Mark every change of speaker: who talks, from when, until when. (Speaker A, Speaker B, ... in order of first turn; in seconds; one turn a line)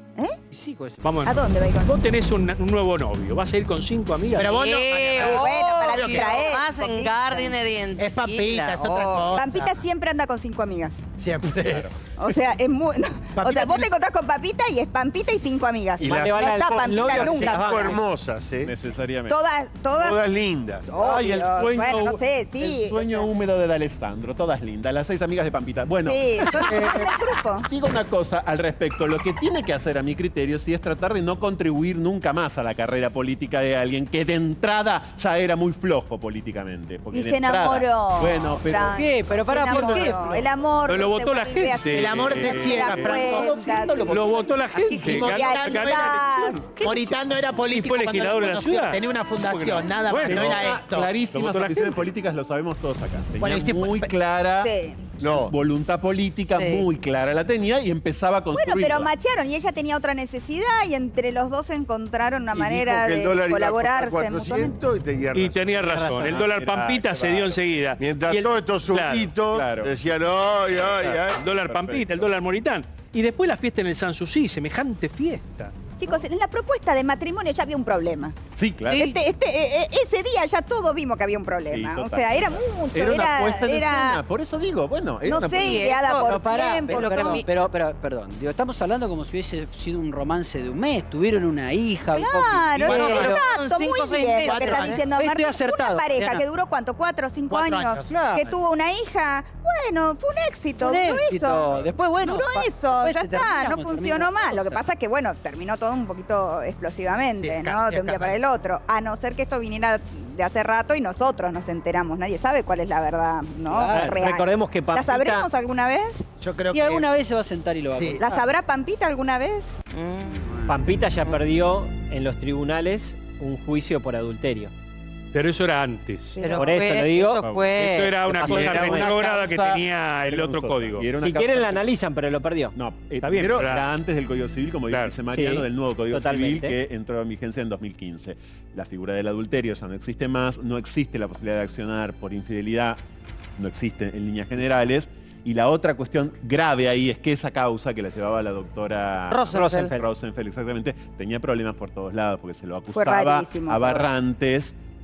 Speaker A: 0.5-1.0
Speaker B: 1.0-5.2
Speaker C: 1.2-2.0
Speaker D: 4.3-6.5
Speaker E: 4.4-9.4
Speaker C: 5.2-7.6
Speaker D: 8.0-9.8
Speaker C: 9.3-11.0
Speaker D: 11.2-11.9
Speaker F: 11.4-12.0
Speaker C: 12.2-17.9
Speaker D: 13.3-13.9
Speaker G: 16.0-16.5
Speaker H: 16.0-18.0
Speaker F: 17.1-17.4
Speaker G: 17.2-18.7
Speaker F: 18.6-19.4
Speaker C: 19.3-20.2
Speaker G: 19.9-20.9
Speaker C: 20.9-23.3
Speaker F: 21.0-39.1
Speaker C: 26.0-27.7
Speaker C: 37.1-46.7
Speaker A: 38.9-40.4
Speaker D: 39.7-40.2
Speaker B: 40.9-47.1
Speaker D: 41.9-44.3
Speaker F: 43.2-44.5
Speaker D: 44.9-46.2
Speaker D: 46.8-51.1
Speaker B: 47.7-52.0
Speaker F: 50.2-59.1
Speaker D: 53.4-54.1
Speaker C: 54.6-55.0
Speaker G: 55.2-55.5
Speaker E: 56.5-56.8
Speaker C: 58.5-64.8
Speaker G: 62.5-65.9
Speaker B: 65.3-69.3
Speaker H: 65.9-66.2
Speaker F: 66.0-67.5
Speaker G: 68.0-71.4
Speaker F: 69.5-70.0
Speaker F: 70.8-72.3
Speaker B: 71.3-75.7
Speaker C: 76.0-78.3
Speaker F: 78.5-79.1
Speaker C: 78.9-84.2
Speaker F: 81.6-85.8
Speaker C: 85.2-87.4
Speaker E: 85.5-87.4
Speaker A: 86.2-93.5
Speaker C: 92.1-116.2
Speaker E: 92.8-95.0
Speaker B: 93.0-93.3
Speaker D: 94.4-95.0
Speaker A: 95.0-96.4
Speaker D: 97.5-98.1
Speaker A: 98.1-98.5
Speaker A: 100.8-104.8
Speaker D: 107.4-108.4
Speaker A: 113.7-114.4
Speaker H: 113.9-115.5
Speaker D: 116.4-117.1
Speaker A: 116.7-118.4
Speaker D: 117.9-118.2
Speaker C: 118.2-119.7
Speaker E: 119.9-120.5
Speaker A: 120.4-120.7
Speaker H: 120.7-124.7
Speaker B: 125.3-126.5
Speaker E: 126.3-128.3
Speaker H: 126.5-127.4
Speaker F: 127.4-131.9
Speaker B: 127.6-131.2
Speaker H: 128.4-129.2
Speaker H: 131.2-132.7
Speaker F: 132.7-143.0
Speaker B: 133.2-133.9
Speaker B: 134.9-135.2
Speaker H: 135.3-136.8
Speaker F: 143.6-154.8
Speaker E: 149.3-149.9
Speaker H: 149.6-150.1
Speaker C: 152.9-154.1